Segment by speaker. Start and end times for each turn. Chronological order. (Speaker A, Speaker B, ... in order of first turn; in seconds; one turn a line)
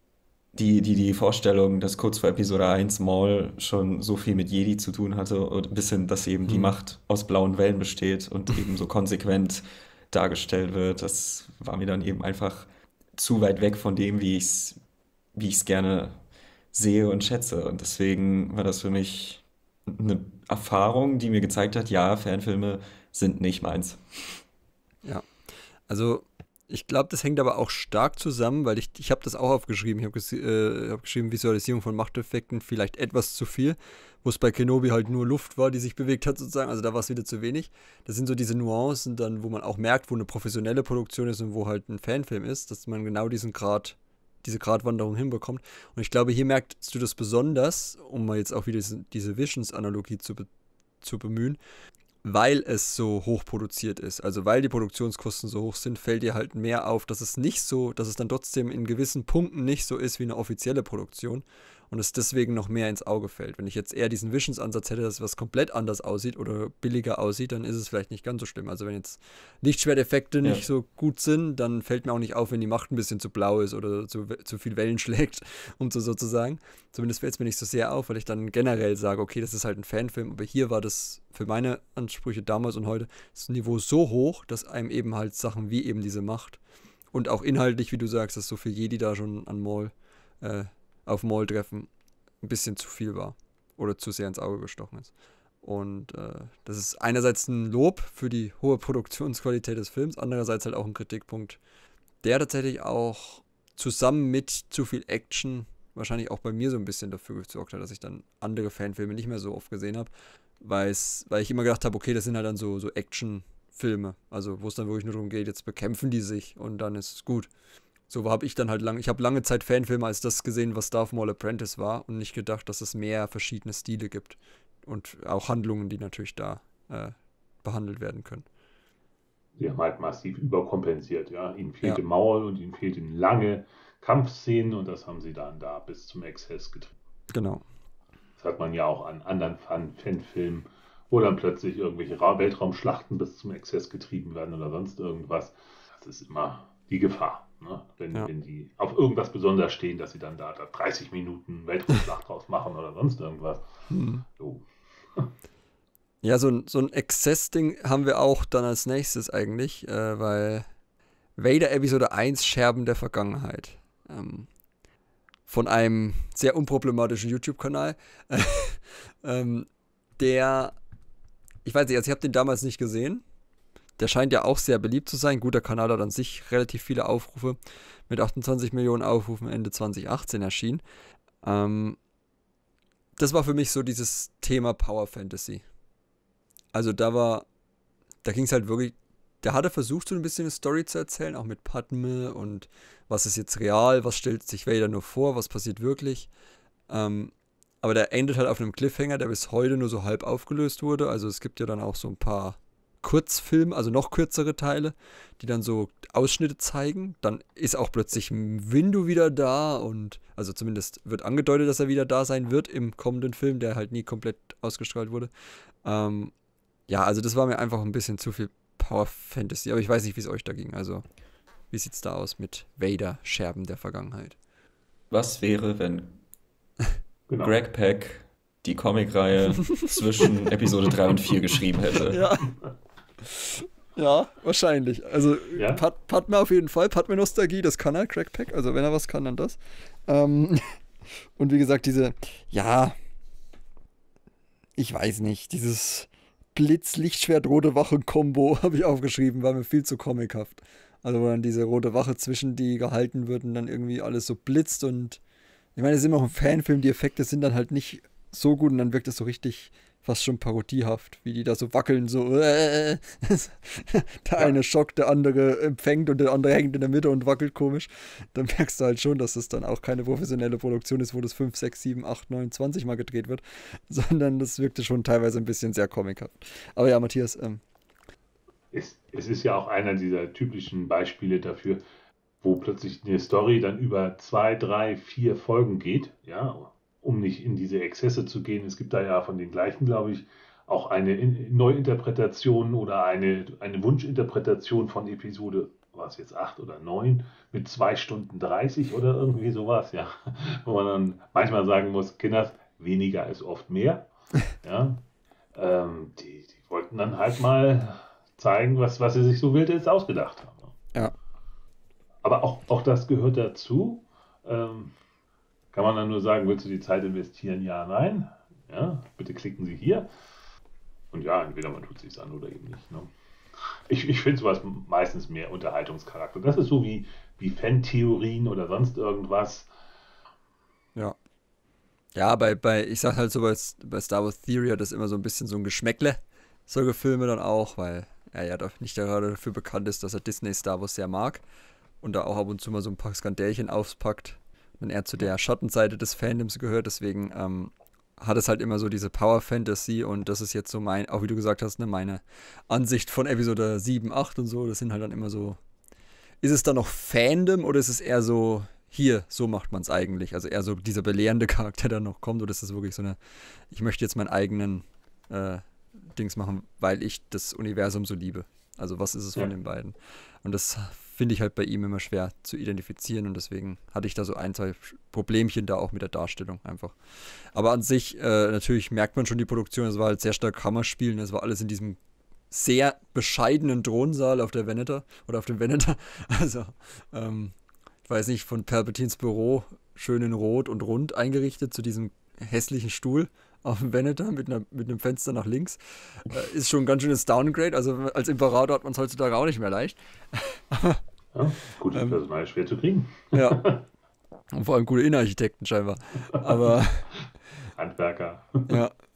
Speaker A: 0.5-14.8
Speaker B: 6.5-6.8
Speaker A: 15.3-16.2
Speaker A: 16.7-24.4
Speaker B: 25.9-50.5
Speaker B: 51.0-51.6
Speaker B: 52.2-86.6
Speaker B: 87.1-91.9
Speaker B: 92.4-95.1
Speaker B: 95.6-101.6
Speaker B: 102.2-117.5
Speaker B: 118.1-128.5
Speaker C: 129.6-136.9
Speaker B: 137.3-137.6
Speaker C: 138.4-153.7
Speaker B: 153.9-154.2
Speaker C: 154.4-155.3
Speaker B: 156.2-160.7
Speaker B: 161.4-164.5
Speaker B: 165.5-170.8
Speaker B: 171.7-173.2
Speaker B: 174.0-180.8
Speaker B: 181.4-182.0
Speaker B: 183.2-185.6
Speaker B: 186.7-187.5
Speaker B: 188.2-196.3
Speaker B: 196.9-215.3
Speaker B: 215.8-216.3
Speaker B: 216.9-221.0
Speaker B: 221.7-224.4
Speaker A: 225.1-226.2
Speaker C: 227.3-227.6
Speaker A: 227.4-232.2
Speaker B: 232.1-232.5
Speaker B: 233.2-240.8
Speaker C: 235.6-235.8
Speaker B: 241.4-242.9
Speaker B: 244.8-255.2
Speaker B: 255.8-277.6
Speaker C: 278.7-281.8
Speaker C: 282.4-304.1
Speaker C: 304.6-305.0
Speaker C: 305.6-310.7
Speaker C: 312.2-314.9
Speaker C: 315.7-320.1
Speaker C: 321.1-329.7
Speaker B: 332.1-341.4
Speaker B: 342.0-355.6
Speaker B: 356.4-363.2
Speaker B: 363.7-365.6
Speaker B: 366.1-377.0
Speaker B: 377.5-382.0
Speaker B: 382.5-387.5
Speaker B: 388.1-401.0
Speaker C: 401.3-403.8
Speaker B: 401.9-402.2
Speaker B: 403.3-403.6
Speaker B: 404.5-407.1
Speaker C: 407.8-408.8
Speaker B: 408.7-408.9